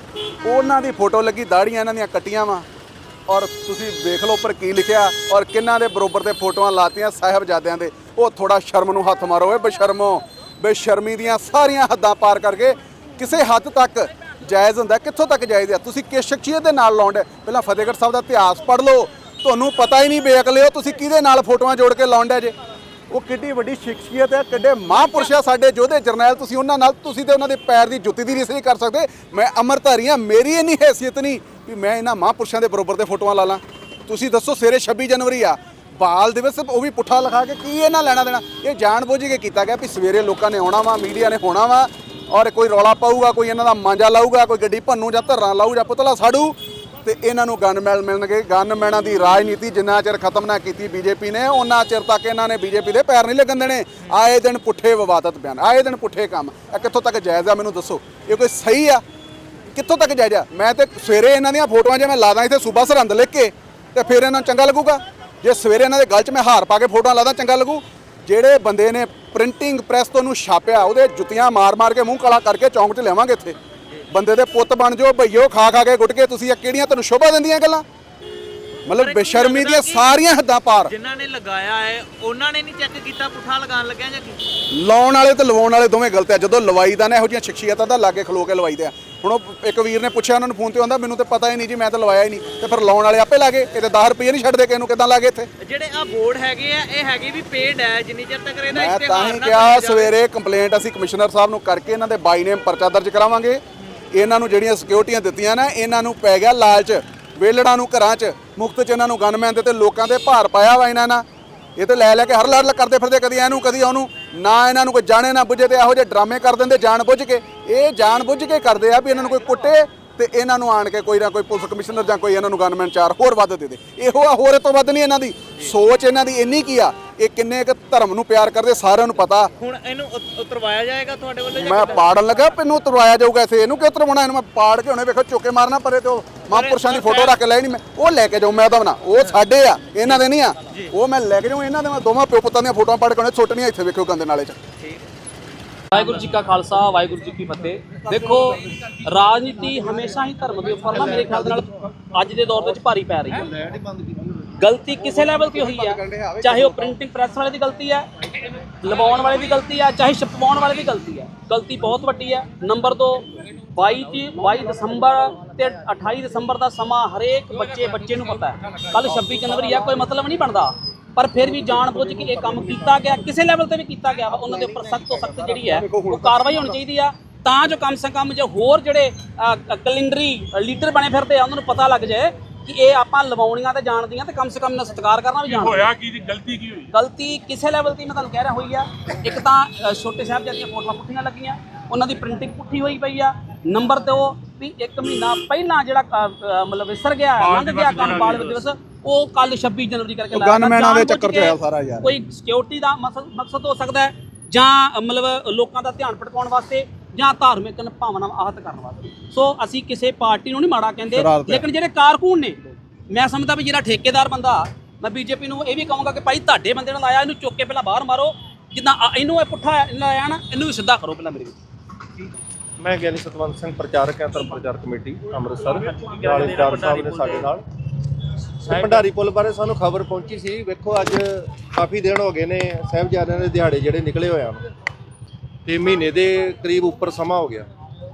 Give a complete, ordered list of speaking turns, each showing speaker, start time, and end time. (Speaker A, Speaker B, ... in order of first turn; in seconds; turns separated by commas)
Speaker A: 0.4-2.6, Speaker A: 3.3-22.5, Speaker A: 23.1-59.0, Speaker A: 59.7-73.5, Speaker A: 74.1-77.8, Speaker A: 78.8-80.9, Speaker B: 78.9-80.2, Speaker B: 80.8-84.4, Speaker A: 84.7-95.5, Speaker B: 95.6-100.1, Speaker A: 98.7-103.6, Speaker A: 104.1-111.2, Speaker A: 111.8-129.5, Speaker B: 129.6-132.2, Speaker A: 131.5-144.6, Speaker B: 136.5-137.3, Speaker B: 140.7-140.9, Speaker C: 145.9-153.5, Speaker D: 150.9-151.7, Speaker D: 153.3-154.5, Speaker C: 154.6-158.1, Speaker A: 155.4-156.8, Speaker C: 158.8-186.0, Speaker A: 174.8-176.7, Speaker E: 185.5-186.9, Speaker C: 186.9-221.6, Speaker E: 197.4-198.5, Speaker A: 200.3-202.1, Speaker A: 211.1-211.6, Speaker D: 222.8-227.6, Speaker B: 225.9-227.5, Speaker D: 228.6-234.6, Speaker B: 228.7-229.0, Speaker D: 235.7-237.7